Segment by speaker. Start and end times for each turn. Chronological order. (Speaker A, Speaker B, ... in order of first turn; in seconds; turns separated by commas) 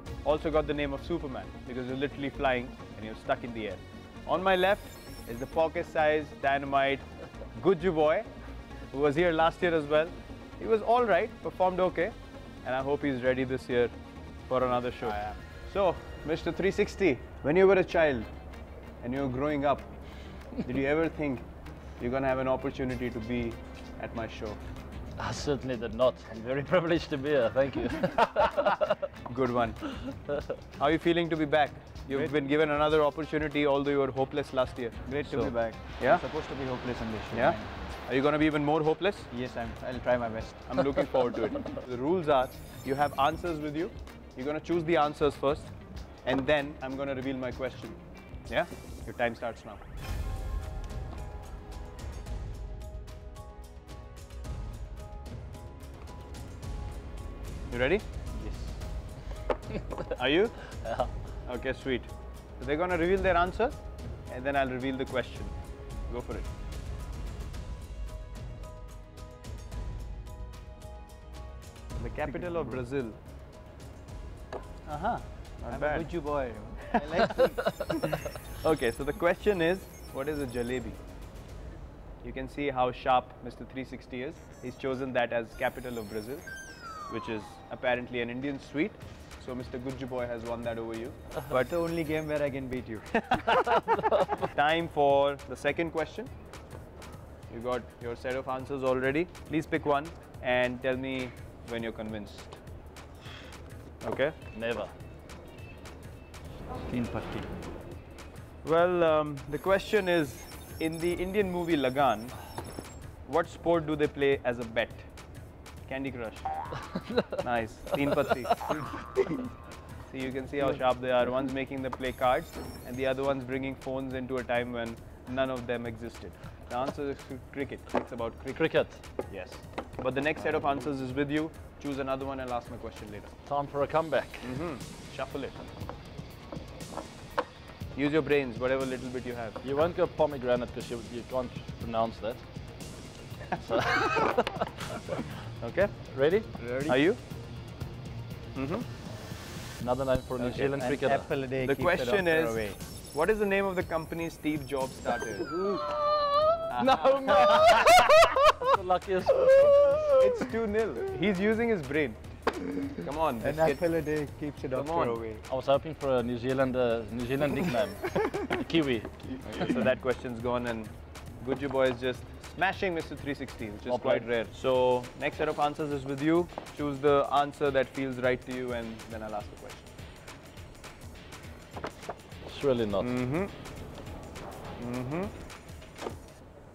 Speaker A: 0.2-8.3, Speaker A: 8.9-13.9, Speaker A: 14.5-18.3, Speaker B: 15.0-15.4, Speaker A: 19.0-19.9, Speaker A: 20.6-21.4, Speaker A: 22.0-24.6, Speaker C: 25.2-29.1, Speaker A: 29.2-29.9, Speaker A: 30.8-35.0, Speaker B: 35.1-37.7, Speaker C: 35.3-35.5, Speaker A: 37.3-39.3, Speaker B: 39.3-40.7, Speaker A: 40.7-45.7, Speaker A: 46.2-49.8, Speaker A: 57.7-58.0, Speaker C: 58.4-58.8, Speaker C: 59.7-60.1, Speaker A: 60.1-65.5, Speaker C: 60.8-61.1, Speaker A: 66.1-66.5, Speaker A: 72.0-73.2, Speaker A: 74.9-76.1, Speaker B: 75.7-77.7, Speaker A: 77.2-81.0, Speaker A: 82.2-86.5, Speaker A: 87.1-91.7, Speaker B: 91.5-93.5, Speaker A: 93.3-96.3, Speaker C: 93.7-94.4, Speaker A: 97.5-102.6, Speaker A: 104.0-104.4, Speaker C: 104.5-104.9, Speaker B: 106.9-107.5, Speaker A: 108.6-112.4, Speaker A: 113.3-115.1, Speaker A: 115.9-116.7, Speaker C: 117.0-117.4, Speaker A: 117.3-118.9, Speaker C: 118.1-118.9, Speaker A: 120.1-133.3, Speaker C: 128.5-129.0, Speaker C: 133.5-134.6, Speaker A: 134.4-135.6, Speaker A: 137.9-139.6, Speaker C: 139.6-142.4, Speaker C: 143.6-145.1, Speaker A: 145.6-145.9, Speaker C: 146.1-146.5, Speaker B: 146.6-147.0, Speaker A: 146.9-147.2, Speaker A: 148.6-148.9, Speaker C: 149.8-151.3, Speaker B: 150.4-152.8, Speaker A: 151.6-155.6, Speaker A: 156.7-157.7, Speaker C: 156.8-160.1, Speaker A: 160.1-162.2, Speaker A: 162.9-163.8, Speaker B: 163.4-165.4, Speaker A: 164.7-165.2, Speaker C: 165.5-169.7, Speaker A: 169.5-179.9, Speaker C: 173.9-174.3, Speaker C: 182.5-183.1, Speaker A: 183.0-183.5, Speaker A: 184.8-185.3